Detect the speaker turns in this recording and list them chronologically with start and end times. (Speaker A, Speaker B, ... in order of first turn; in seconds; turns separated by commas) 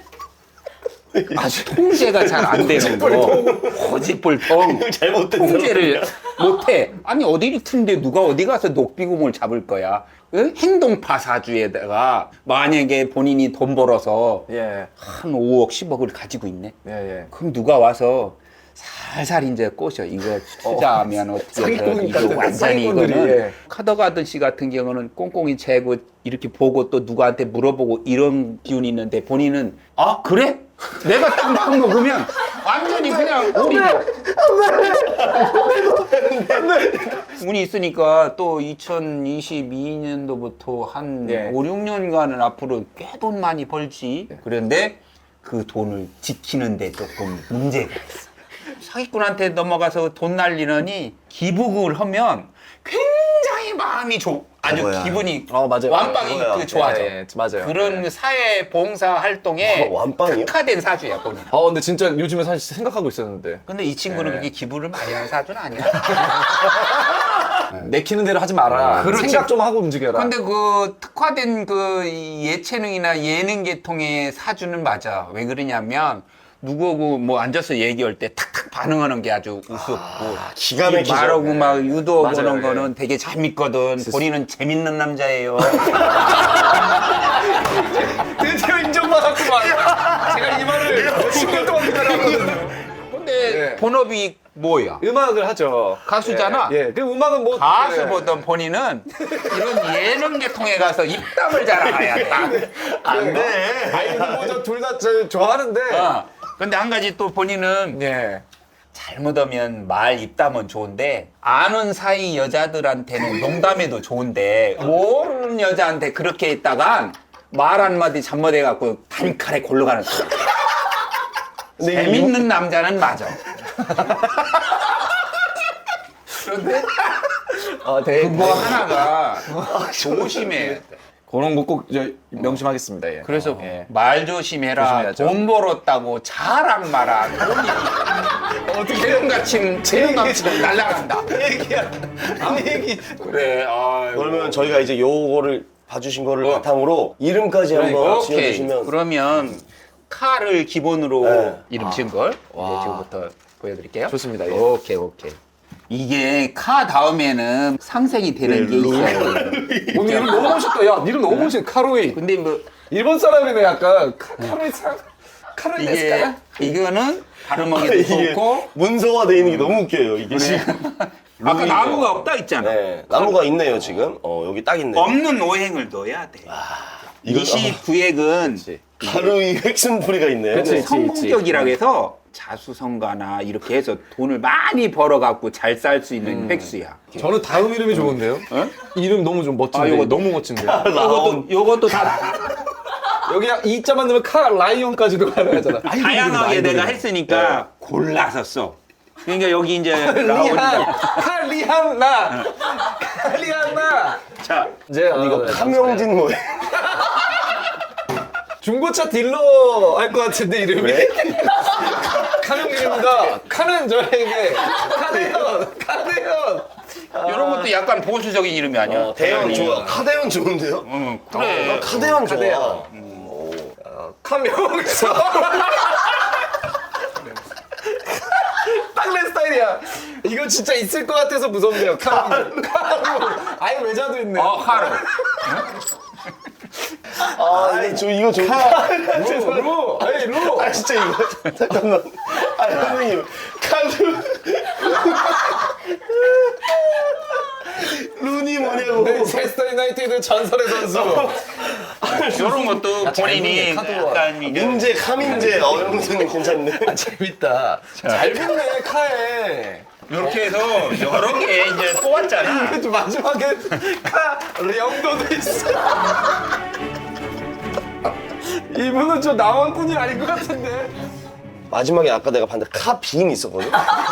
Speaker A: 1.1-3.8, Speaker B: 1.3-14.5, Speaker C: 2.5-3.7, Speaker A: 4.4-6.3, Speaker C: 14.5-14.9, Speaker B: 15.0-16.8, Speaker C: 16.9-17.3, Speaker B: 17.3-34.1, Speaker C: 20.6-23.6, Speaker C: 33.0-35.2, Speaker A: 34.5-37.2, Speaker C: 36.5-37.3, Speaker B: 37.3-61.5, Speaker C: 41.2-41.6, Speaker A: 54.6-55.3, Speaker C: 55.5-58.1, Speaker A: 59.6-60.5, Speaker C: 61.5-64.5, Speaker B: 63.7-66.7, Speaker C: 66.0-70.3, Speaker A: 68.7-69.3, Speaker B: 68.9-69.5, Speaker B: 70.1-86.4, Speaker A: 80.1-81.7, Speaker C: 82.2-82.9, Speaker C: 85.9-92.8, Speaker A: 89.9-92.6, Speaker B: 92.9-95.0, Speaker C: 93.4-93.8, Speaker C: 95.0-98.4, Speaker B: 96.0-96.8, Speaker B: 97.5-103.4, Speaker C: 99.2-99.6, Speaker A: 101.8-104.6, Speaker C: 102.2-106.1, Speaker B: 105.9-108.0, Speaker C: 107.9-108.4, Speaker B: 108.9-121.0, Speaker A: 121.8-122.5, Speaker B: 121.8-123.4, Speaker B: 124.1-125.0, Speaker B: 126.3-127.5, Speaker C: 127.8-130.8, Speaker B: 128.0-130.9, Speaker C: 131.3-133.9, Speaker B: 133.2-141.3, Speaker C: 134.8-135.4, Speaker C: 138.6-143.5, Speaker B: 142.4-142.7, Speaker B: 143.2-144.8, Speaker A: 144.1-148.9, Speaker C: 147.7-148.3, Speaker B: 147.8-155.4, Speaker A: 151.2-151.6, Speaker C: 151.8-153.1, Speaker C: 154.1-154.7, Speaker B: 155.9-160.7, Speaker A: 158.4-160.6, Speaker C: 159.9-162.2, Speaker B: 161.3-161.6, Speaker B: 162.1-162.7, Speaker C: 162.9-165.0, Speaker C: 165.6-166.4, Speaker B: 165.8-168.7, Speaker A: 167.7-170.8, Speaker B: 169.4-173.4, Speaker A: 171.4-175.2, Speaker B: 174.9-176.5, Speaker A: 176.5-177.8, Speaker B: 177.2-179.4, Speaker A: 179.0-180.9, Speaker C: 180.5-181.7, Speaker B: 180.5-187.3, Speaker C: 186.2-190.9, Speaker B: 187.9-188.8, Speaker B: 189.7-190.3, Speaker A: 190.6-192.1, Speaker B: 190.9-192.6, Speaker C: 193.2-197.0, Speaker B: 195.8-201.2, Speaker A: 197.3-197.6, Speaker C: 199.9-204.2, Speaker B: 204.3-204.7, Speaker C: 204.9-206.1, Speaker A: 205.1-206.7, Speaker C: 208.6-217.7, Speaker A: 210.7-213.3, Speaker B: 217.2-219.9, Speaker A: 218.8-223.8, Speaker C: 219.2-220.0, Speaker B: 220.8-222.2, Speaker C: 221.4-222.9, Speaker B: 222.9-223.3, Speaker C: 223.8-226.3, Speaker C: 227.9-235.1, Speaker A: 232.0-232.5, Speaker B: 234.3-235.7, Speaker C: 237.2-240.8, Speaker A: 237.3-249.6, Speaker C: 248.8-251.7, Speaker A: 250.7-253.1, Speaker B: 252.2-255.8, Speaker C: 252.9-254.3, Speaker A: 254.4-257.1, Speaker C: 255.2-261.4, Speaker B: 257.9-258.5, Speaker B: 260.1-262.8, Speaker C: 262.3-266.2, Speaker C: 268.4-270.9, Speaker A: 271.7-273.8